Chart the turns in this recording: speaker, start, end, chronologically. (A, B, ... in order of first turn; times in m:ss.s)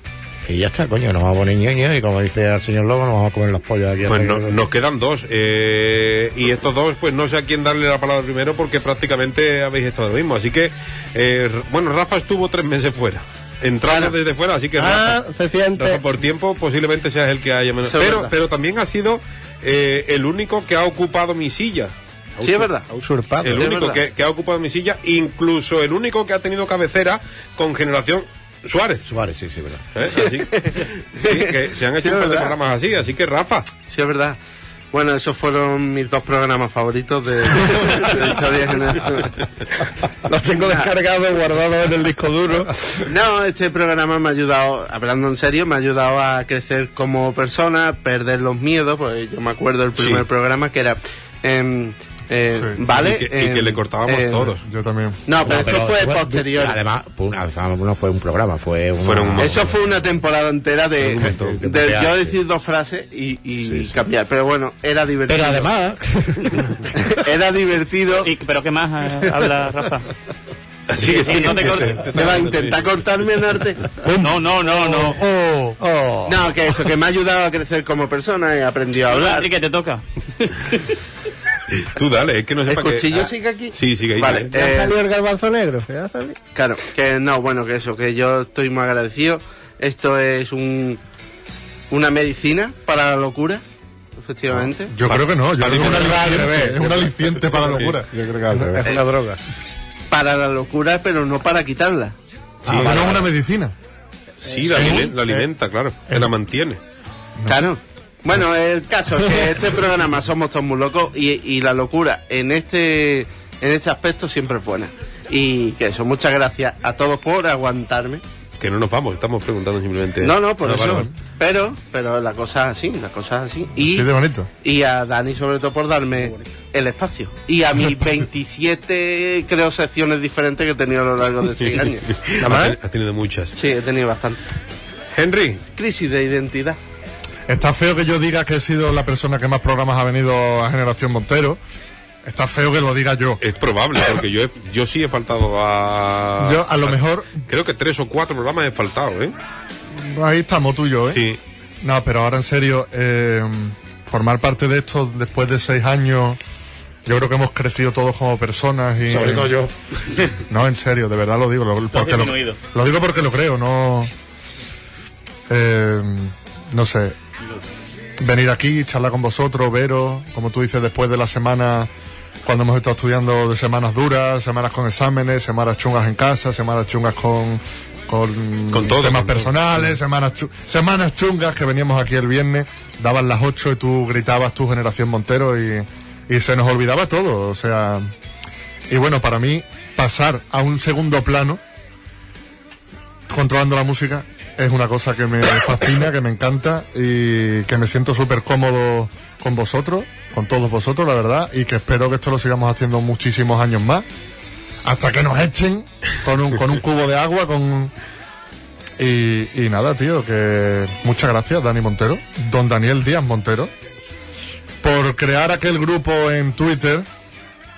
0:00.5-0:04.6 A
0:04.1-0:15.2 B
0:13.9-0:14.1 C
0:14.8-0:16.0 D
0:15.8-0:22.6 B
0:17.8-0:18.3 C
0:22.4-0:22.9 C
0:22.9-0:23.7 D
0:23.4-0:29.0 B
0:23.5-0:24.0 C
0:29.1-0:29.9 A
0:30.0-0:30.7 B
0:30.5-0:32.6 C
0:31.2-0:33.8 B
0:33.8-0:34.4 C
0:34.9-0:39.3 C
0:40.3-0:42.9 D
0:43.1-0:54.6 C
0:50.0-0:50.2 B
0:52.9-0:54.6 B
0:54.6-0:55.2 E
0:55.3-0:56.8 C
0:55.4-1:00.0 A
0:59.0-0:59.7 B
0:59.4-1:05.7 C
1:01.0-1:01.6 B
1:01.3-1:02.4 A
1:03.6-1:04.0 A
1:05.3-1:06.8 A
1:07.0-1:08.3 C
1:08.2-1:10.1 F
1:10.9-1:13.2 B
1:11.0-1:12.2 F
1:12.1-1:13.8 C
1:14.0-1:15.2 D
1:14.2-1:15.2 F
1:15.8-1:16.4 D
1:16.3-1:19.5 C
1:19.1-1:20.9 F
1:21.8-1:24.5 B
1:22.7-1:24.9 C
1:24.2-1:26.4 D
1:26.6-1:31.0 C
1:31.9-1:33.6 C
1:34.2-1:34.9 C
1:34.9-1:38.1 E
1:35.1-1:36.4 B
1:35.8-1:37.1 D
1:36.3-1:36.9 A
1:37.7-1:38.0 B
1:38.2-1:38.9 A
1:38.5-1:39.4 D
1:40.1-1:42.1 C
1:42.6-1:43.3 B
1:42.7-1:43.8 E
1:44.4-1:46.8 B
1:44.7-1:45.4 E
1:47.5-1:58.2 C
1:58.6-2:01.1 B
2:00.2-2:04.1 C
2:03.8-2:04.5 E
2:04.6-2:12.1 C
2:12.1-2:13.5 B
2:12.4-2:12.8 D
2:13.6-2:14.4 C
2:15.1-2:15.6 B
2:15.7-2:16.8 C
2:17.5-2:21.6 E
2:22.2-2:23.4 E
2:23.4-2:29.3 B
2:26.4-2:27.4 E
2:30.0-2:31.2 E
2:31.1-2:31.4 B
2:31.8-2:36.4 E
2:37.1-2:39.5 E
2:39.1-2:39.7 A
2:40.5-2:44.1 E
2:41.9-2:42.6 F
2:45.5-2:47.2 E
2:48.2-2:51.9 E
2:52.4-3:08.1 E
2:58.7-2:59.6 B
3:08.9-3:11.6 E
3:13.3-3:24.1 E
3:24.8-3:27.9 E
3:29.0-3:33.7 E
3:34.8-3:37.1 E